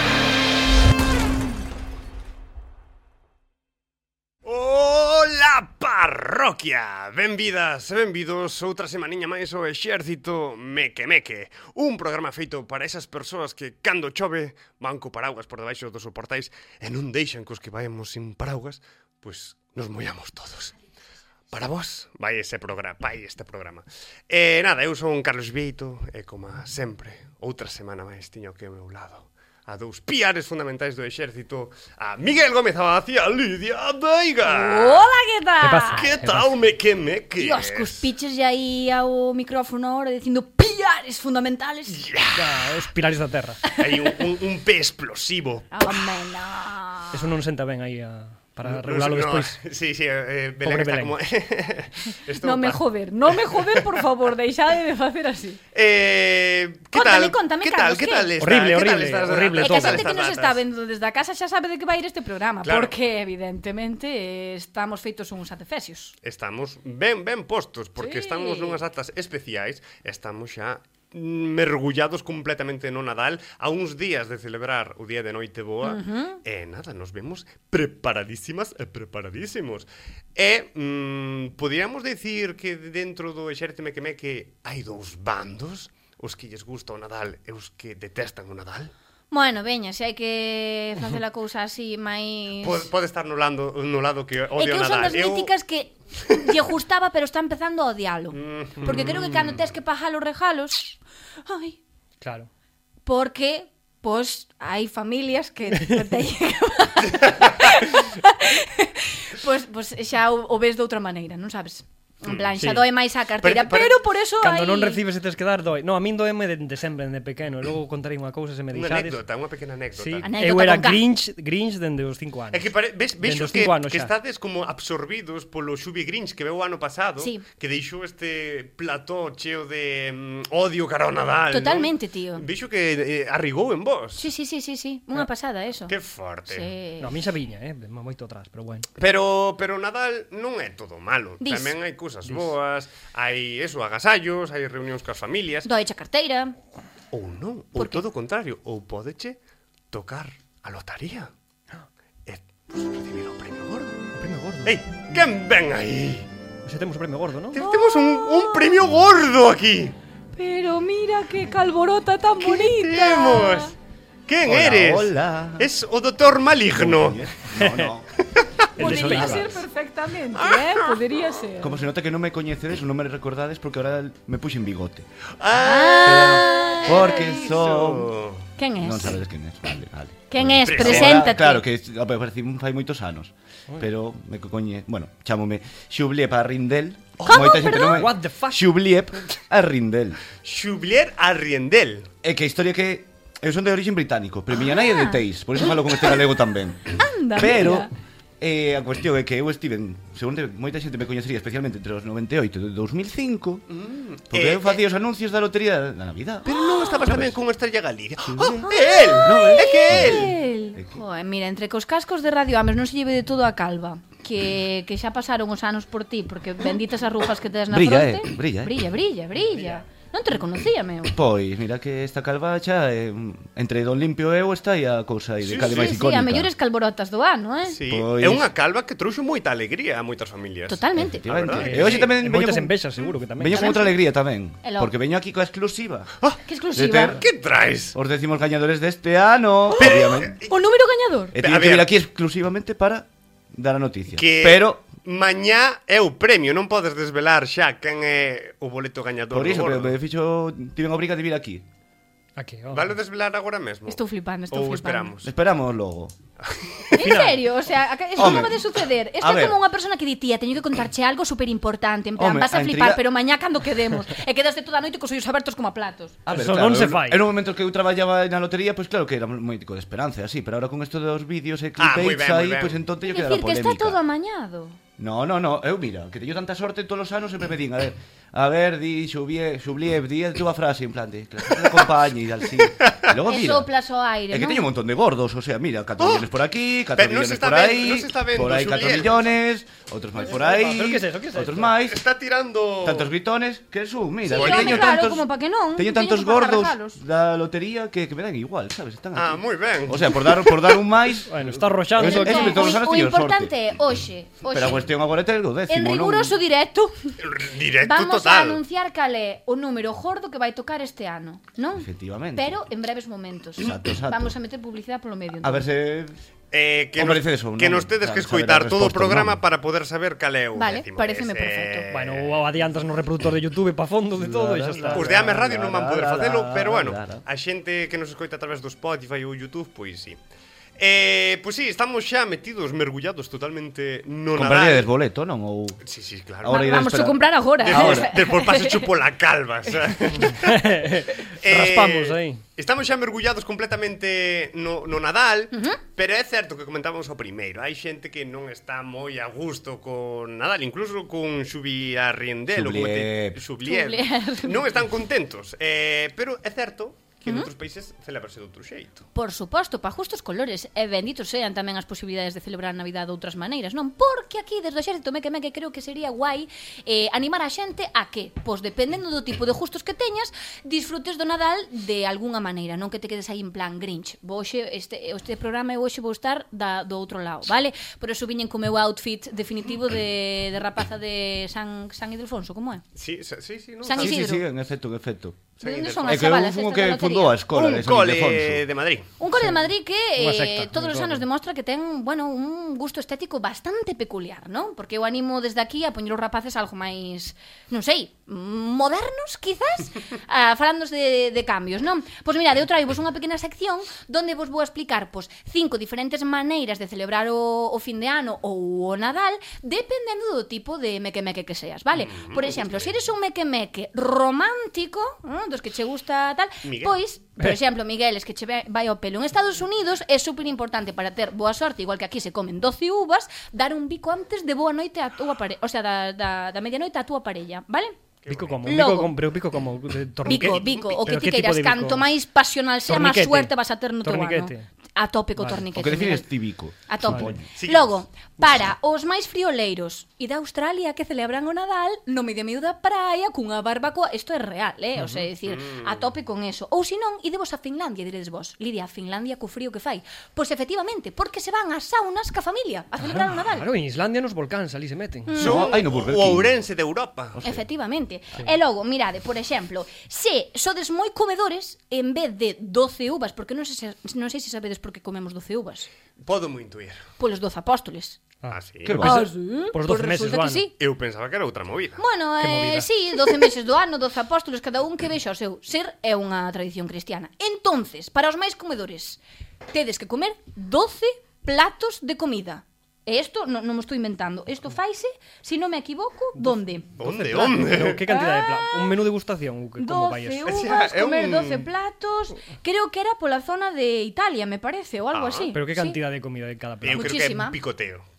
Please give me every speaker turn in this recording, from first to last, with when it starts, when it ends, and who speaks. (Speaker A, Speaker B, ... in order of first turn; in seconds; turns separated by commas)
Speaker A: 4.4-20.7, Speaker A: 21.5-35.1, Speaker B: 34.4-36.1, Speaker C: 35.6-36.5, Speaker A: 35.9-38.0, Speaker B: 37.4-42.0, Speaker A: 41.9-42.4, Speaker C: 42.3-43.6, Speaker B: 43.6-44.1, Speaker A: 43.7-45.8, Speaker B: 45.7-47.3, Speaker C: 47.1-49.6, Speaker A: 48.6-53.8, Speaker C: 50.6-51.1, Speaker B: 52.4-55.6, Speaker A: 55.7-60.6, Speaker B: 56.9-58.3, Speaker C: 58.4-60.1, Speaker B: 59.6-66.1, Speaker A: 62.6-62.9, Speaker A: 66.2-88.9, Speaker B: 68.0-68.8, Speaker B: 75.8-76.4, Speaker B: 89.3-92.9, Speaker A: 92.6-95.5, Speaker B: 94.5-101.8, Speaker A: 98.3-99.6, Speaker C: 102.2-102.5, Speaker B: 103.0-115.0, Speaker A: 112.2-112.5, Speaker C: 112.6-112.8, Speaker A: 113.4-114.0, Speaker C: 114.4-119.2, Speaker A: 118.7-120.3, Speaker C: 119.9-122.7, Speaker B: 120.2-121.0, Speaker A: 122.5-134.2, Speaker C: 123.2-124.1, Speaker B: 127.2-127.4, Speaker B: 131.5-132.4, Speaker B: 134.2-135.9, Speaker A: 135.9-136.7, Speaker B: 136.5-137.2, Speaker C: 137.0-138.9, Speaker A: 139.0-145.7, Speaker B: 141.4-141.8, Speaker C: 142.2-142.5, Speaker B: 145.6-146.5, Speaker A: 147.1-149.4, Speaker B: 147.8-148.0, Speaker A: 149.9-151.3, Speaker A: 152.2-154.0, Speaker C: 154.2-154.8, Speaker A: 154.6-156.3, Speaker C: 156.6-157.6, Speaker A: 157.5-159.9, Speaker B: 157.5-158.8, Speaker B: 160.3-163.7, Speaker A: 162.4-163.7, Speaker A: 164.3-167.2, Speaker D: 164.4-165.7, Speaker D: 166.7-168.1, Speaker C: 167.5-167.9, Speaker D: 168.8-169.6, Speaker C: 168.8-169.6, Speaker B: 168.8-171.8, Speaker A: 170.4-171.0, Speaker D: 171.6-175.1, Speaker A: 175.4-178.4, Speaker B: 175.5-177.2, Speaker D: 176.0-178.1, Speaker B: 178.6-179.2, Speaker D: 178.8-190.2, Speaker B: 180.3-181.6, Speaker A: 180.7-181.2, Speaker A: 187.2-187.5, Speaker B: 187.2-188.1, Speaker C: 187.8-188.7, Speaker A: 190.4-192.1, Speaker D: 192.2-197.9, Speaker B: 194.7-195.2, Speaker B: 196.9-197.9, Speaker D: 198.4-203.7, Speaker A: 203.7-204.8, Speaker D: 204.3-207.3, Speaker A: 206.4-210.3, Speaker B: 206.5-207.0, Speaker D: 208.3-208.7, Speaker B: 208.6-221.2, Speaker D: 209.2-211.0, Speaker D: 217.7-218.8, Speaker D: 221.1-226.5, Speaker A: 225.4-226.0, Speaker B: 225.6-227.8, Speaker A: 227.7-232.1, Speaker D: 227.9-228.5, Speaker B: 230.7-231.3, Speaker D: 230.9-232.7, Speaker C: 231.6-233.8, Speaker D: 233.3-236.1, Speaker B: 233.5-233.9, Speaker B: 234.6-234.9, Speaker B: 236.4-237.2, Speaker D: 236.7-237.2, Speaker A: 237.1-237.9, Speaker D: 237.9-240.4, Speaker A: 239.8-240.6, Speaker B: 240.4-241.3, Speaker D: 241.3-244.8, Speaker A: 241.4-241.9, Speaker A: 244.1-250.0, Speaker D: 249.3-251.6, Speaker C: 252.3-253.0, Speaker A: 252.7-254.0, Speaker B: 253.9-255.2, Speaker A: 254.5-255.3, Speaker D: 255.2-256.1, Speaker A: 256.5-256.9, Speaker B: 256.9-266.1, Speaker C: 256.9-257.4, Speaker D: 258.1-258.6, Speaker D: 259.2-259.6, Speaker D: 262.2-263.0, Speaker D: 266.2-274.0, Speaker C: 266.3-267.2, Speaker A: 271.8-272.8, Speaker B: 273.1-274.8, Speaker D: 275.0-283.7, Speaker B: 283.2-284.7, Speaker D: 284.3-292.0, Speaker A: 286.0-286.3, Speaker A: 286.9-289.2, Speaker C: 290.2-291.7, Speaker A: 291.8-293.1, Speaker D: 292.8-303.5, Speaker B: 294.2-297.0, Speaker A: 294.4-295.0, Speaker A: 299.1-300.8, Speaker C: 301.3-302.7, Speaker B: 302.0-304.9, Speaker D: 304.4-306.4, Speaker B: 305.7-307.1, Speaker A: 307.2-308.6, Speaker B: 307.8-315.6, Speaker D: 311.7-312.6, Speaker D: 313.6-314.4, Speaker D: 315.4-316.2, Speaker A: 316.5-322.5, Speaker D: 316.9-319.4, Speaker B: 320.5-321.9, Speaker C: 321.9-325.2, Speaker D: 324.1-327.2, Speaker A: 324.9-330.2, Speaker A: 330.8-334.9, Speaker D: 334.3-335.8, Speaker A: 335.8-336.6, Speaker D: 336.4-338.2, Speaker B: 336.4-338.9, Speaker A: 337.6-359.0, Speaker C: 340.2-342.4, Speaker B: 345.5-345.8, Speaker D: 352.5-353.4, Speaker B: 353.6-354.6, Speaker B: 357.2-357.5, Speaker B: 359.1-382.8, Speaker A: 382.9-384.2, Speaker B: 383.8-384.4, Speaker D: 383.9-385.5, Speaker A: 385.6-386.2, Speaker B: 385.6-387.4, Speaker D: 386.0-388.6, Speaker A: 387.5-389.1, Speaker B: 389.2-427.9, Speaker C: 390.2-391.2, Speaker A: 412.0-412.9, Speaker A: 416.6-416.9, Speaker A: 428.2-428.8, Speaker C: 428.3-432.1, Speaker B: 428.6-429.1, Speaker B: 430.2-436.3, Speaker A: 430.3-430.8, Speaker C: 432.9-434.6, Speaker D: 435.7-437.4, Speaker B: 436.9-453.7, Speaker A: 437.5-437.9, Speaker C: 445.0-445.2, Speaker A: 445.4-446.1, Speaker C: 453.1-455.4, Speaker B: 455.3-455.8, Speaker A: 455.4-457.6, Speaker D: 455.4-456.5, Speaker B: 457.4-465.9, Speaker A: 466.2-467.0, Speaker B: 467.2-468.2, Speaker C: 468.4-470.7, Speaker A: 468.5-469.0, Speaker D: 468.8-469.3, Speaker B: 469.0-470.7, Speaker A: 470.8-472.0, Speaker B: 472.0-489.0, Speaker C: 472.4-472.9, Speaker C: 486.4-490.5, Speaker A: 487.0-488.0, Speaker B: 489.8-496.0, Speaker A: 490.4-491.7, Speaker A: 495.1-495.5, Speaker C: 495.5-497.1, Speaker A: 496.8-498.0, Speaker B: 496.9-497.6